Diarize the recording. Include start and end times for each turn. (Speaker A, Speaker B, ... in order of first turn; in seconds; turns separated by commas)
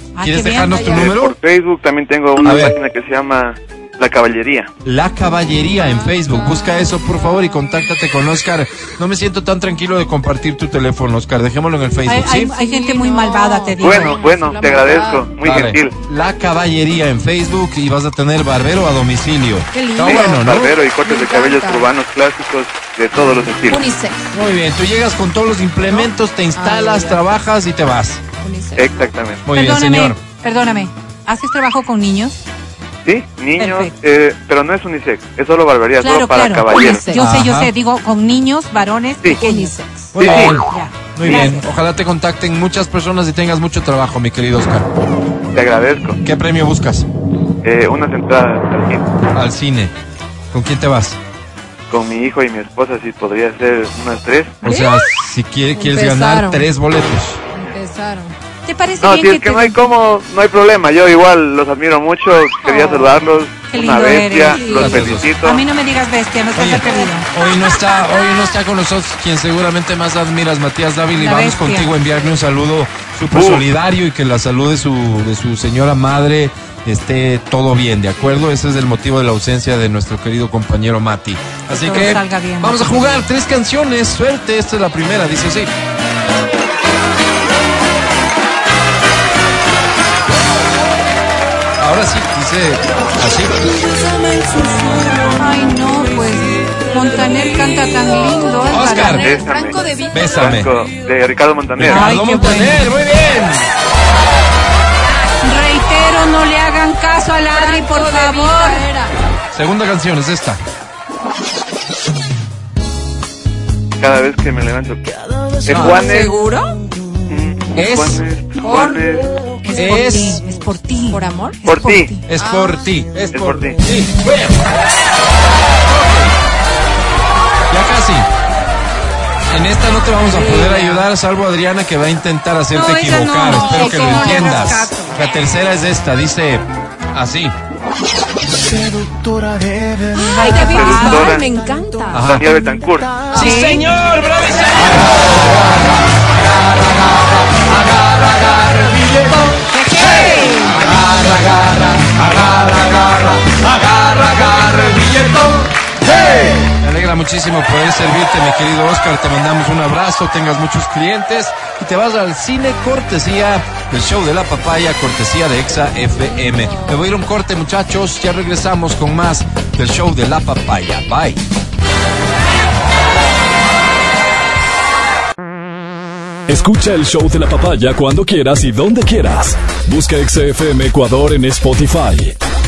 Speaker A: 0.1-1.0, Speaker B: 0.2-1.4, Speaker C: 0.7-1.1, Speaker D: 0.8-4.7, Speaker B: 2.4-2.8, Speaker B: 4.8-12.5, Speaker A: 12.0-14.2, Speaker C: 12.5-15.3, Speaker D: 13.8-15.9, Speaker B: 15.4-20.7, Speaker C: 19.7-21.9, Speaker D: 20.0-23.8, Speaker C: 23.6-24.3, Speaker B: 24.3-28.2, Speaker C: 26.5-27.2, Speaker C: 28.4-29.1, Speaker D: 28.8-29.4, Speaker B: 29.4-30.2, Speaker A: 29.5-32.4, Speaker D: 33.0-37.0, Speaker A: 33.6-33.9, Speaker A: 36.0-39.7, Speaker C: 36.7-37.2, Speaker B: 37.2-37.7, Speaker C: 39.3-40.1, Speaker B: 40.1-44.9, Speaker D: 40.2-40.6, Speaker A: 40.2-41.7, Speaker D: 41.2-41.5, Speaker D: 45.5-46.2, Speaker B: 46.2-47.1, Speaker D: 47.6-49.1, Speaker B: 49.3-49.9, Speaker B: 50.5-51.2, Speaker D: 51.9-54.6, Speaker C: 54.6-55.1, Speaker B: 54.6-57.4, Speaker C: 55.7-56.6, Speaker C: 57.6-58.3, Speaker A: 58.6-59.8, Speaker D: 59.0-65.6, Speaker C: 62.6-63.2, Speaker A: 63.7-67.3, Speaker C: 64.5-65.2, Speaker B: 64.8-65.2, Speaker B: 66.5-85.7, Speaker A: 71.1-71.9, Speaker D: 73.3-73.7, Speaker A: 81.7-83.2, Speaker B: 91.8-93.6, Speaker A: 95.3-99.3, Speaker C: 98.6-100.7, Speaker B: 98.7-99.3, Speaker D: 99.0-102.0, Speaker B: 100.1-100.7, Speaker B: 101.8-103.7, Speaker A: 101.8-102.9, Speaker A: 105.1-108.8, Speaker C: 107.5-109.1, Speaker B: 109.5-110.6, Speaker D: 114.0-116.3, Speaker C: 115.6-116.8, Speaker B: 115.7-116.1, Speaker D: 117.3-119.3, Speaker B: 117.7-118.2, Speaker C: 118.6-120.2, Speaker A: 119.6-122.0, Speaker B: 119.7-120.4, Speaker C: 121.1-122.9, Speaker D: 121.7-122.1, Speaker B: 122.2-124.6, Speaker D: 123.3-123.8, Speaker B: 125.9-126.3, Speaker B: 127.7-128.3, Speaker B: 129.5-137.5, Speaker C: 130.3-131.1, Speaker A: 132.7-135.1, Speaker C: 133.4-134.7, Speaker C: 140.1-142.3, Speaker A: 140.2-141.4, Speaker D: 140.6-141.5, Speaker B: 142.1-142.4, Speaker D: 142.2-143.2, Speaker A: 143.3-143.9, Speaker B: 143.3-145.7, Speaker C: 143.3-143.6, Speaker B: 146.6-146.9, Speaker B: 147.5-149.3, Speaker A: 149.7-150.9, Speaker B: 150.3-155.7, Speaker B: 156.6-171.4, Speaker E: 176.5-182.3